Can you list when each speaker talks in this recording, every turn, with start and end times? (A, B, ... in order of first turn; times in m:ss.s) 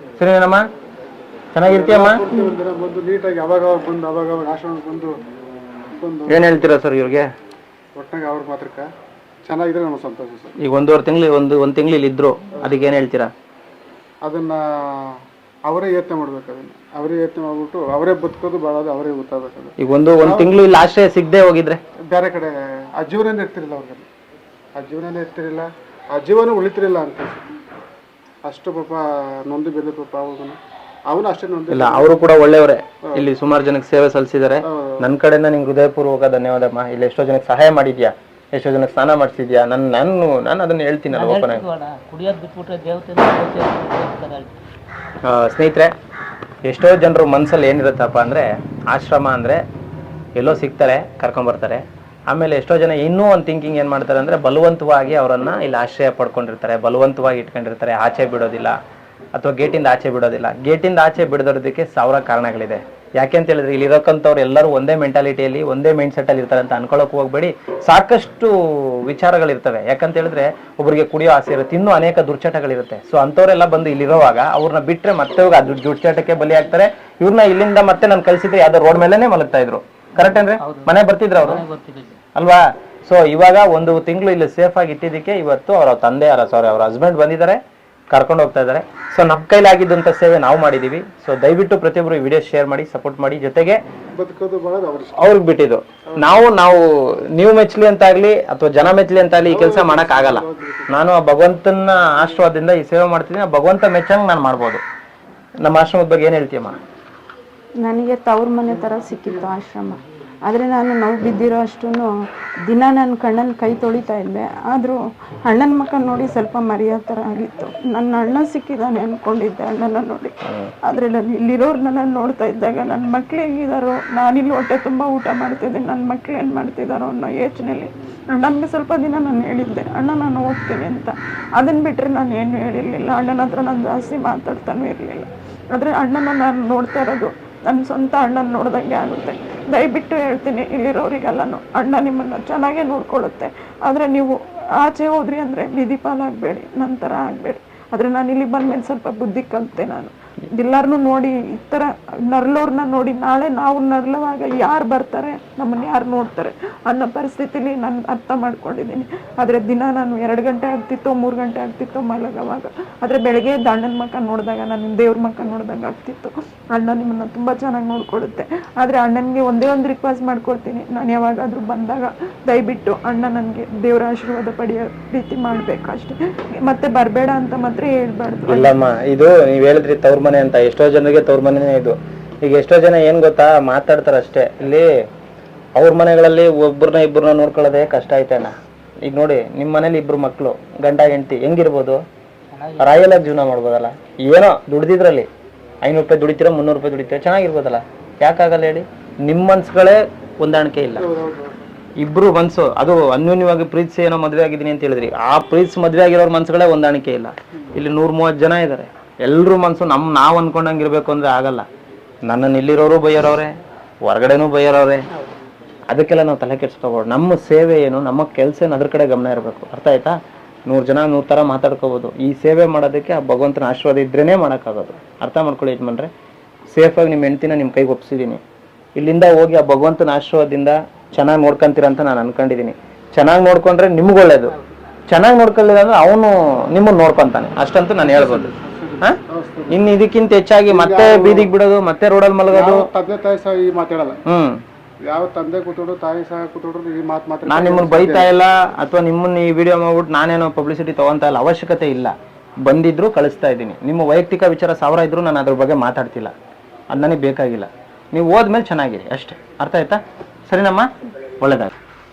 0:00.2-0:00.6 A
0:01.5-0:02.2 A
0:01.6-0:05.1 B
0:06.0-0:06.7 B
0:06.3-0:07.3 A
0:08.0-0:08.9 B
0:09.4-0:10.5 B
0:10.6-0:13.3 A
0:14.2-0:20.5 B
0:19.8-0:21.8 A
0:22.1-0:24.1 B
0:24.8-0:27.4 B
0:28.4-0:32.2 B
0:31.7-0:41.6 A
0:34.7-0:35.0 B
0:41.1-0:44.5 C
0:45.2-0:45.9 A
0:46.6-0:49.6 A
0:50.4-0:58.8 A
0:59.3-1:21.6 A
1:20.2-1:22.2 C
1:22.4-1:27.6 A
1:28.1-1:33.8 A
1:34.2-1:35.3 B
1:35.2-1:44.8 A
1:36.1-1:36.4 B
1:39.5-1:40.9 B
1:45.6-1:46.8 A
1:47.8-1:52.1 D
1:52.6-2:58.7 D
2:58.5-3:04.9 A
3:05.8-3:12.0 A
3:12.5-3:13.1 C
3:12.8-3:15.3 A
3:15.8-3:21.1 A
3:21.0-3:21.6 B
3:22.0-3:31.6 A
3:32.2-3:33.5 A
3:34.0-3:35.0 A
3:35.9-3:40.1 A
3:40.7-3:46.1 A
3:46.7-3:48.4 A
3:49.0-3:54.5 A
3:55.1-3:59.2 A
3:58.0-4:00.0 B
3:59.7-4:02.9 A
4:00.7-4:01.5 B
4:02.5-4:04.2 B
4:04.3-4:04.6 A
4:05.0-4:08.3 B
4:07.4-4:16.3 A
4:16.9-4:20.9 A
4:21.4-4:21.7 A